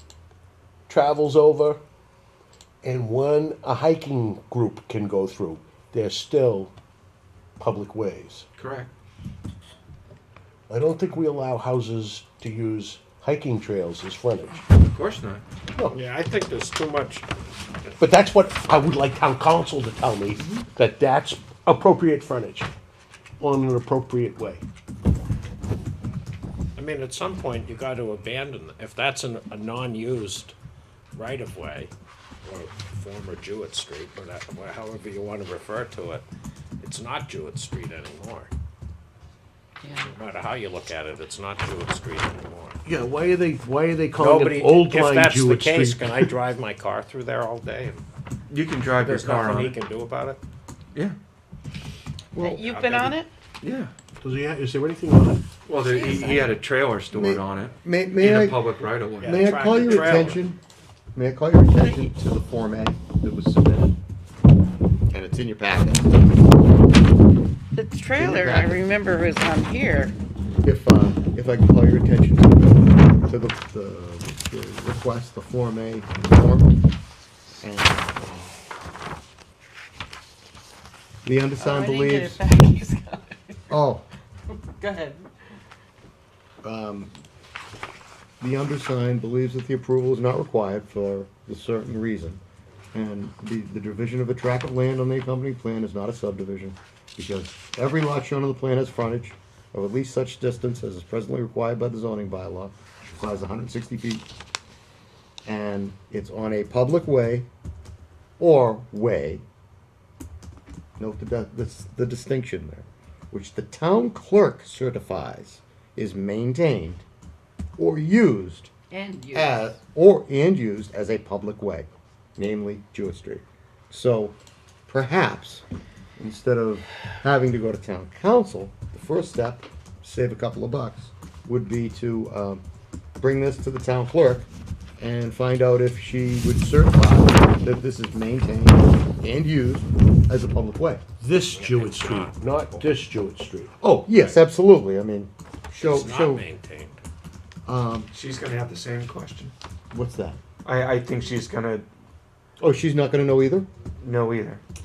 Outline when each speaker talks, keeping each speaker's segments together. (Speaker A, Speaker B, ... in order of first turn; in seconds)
Speaker A: 0.9-1.8, 2.8-6.7, 7.6-8.4, 10.7-14.7, 18.0-22.7, 23.4-24.6, 42.8-46.3, 54.2-55.4, 141.2-143.7
Speaker B: 8.6-8.9, 14.8-15.4, 48.5-49.8, 53.6-53.9, 55.6-59.4, 148.1-149.5, 150.6-151.8, 154.0-154.6
Speaker C: 15.9-17.3, 26.8-30.6, 31.1-36.3, 36.8-38.5, 40.0-42.8, 44.2-48.0, 49.0-50.4, 52.3-53.2, 59.2-60.4, 141.6-142.8, 145.8-147.0
Speaker D: 39.8-40.1, 52.3-53.3, 55.7-56.5, 61.8-62.1, 67.7-70.2, 81.6-83.7, 84.5-85.3, 118.9-119.7
Speaker E: 57.1-58.6, 59.2-60.6, 61.1-64.0, 65.1-66.5, 68.2-68.8, 70.6-76.7, 77.6-78.5, 81.2-82.4, 83.7-84.0, 86.6-87.1, 88.4-92.4, 92.9-104.2, 105.4-107.5, 108.4-109.4, 111.0-117.0, 117.8-118.7, 119.3-125.6, 126.2-132.6, 133.2-134.5, 135.0-141.0, 143.8-146.4, 147.7-148.1, 149.9-150.4, 152.6-153.7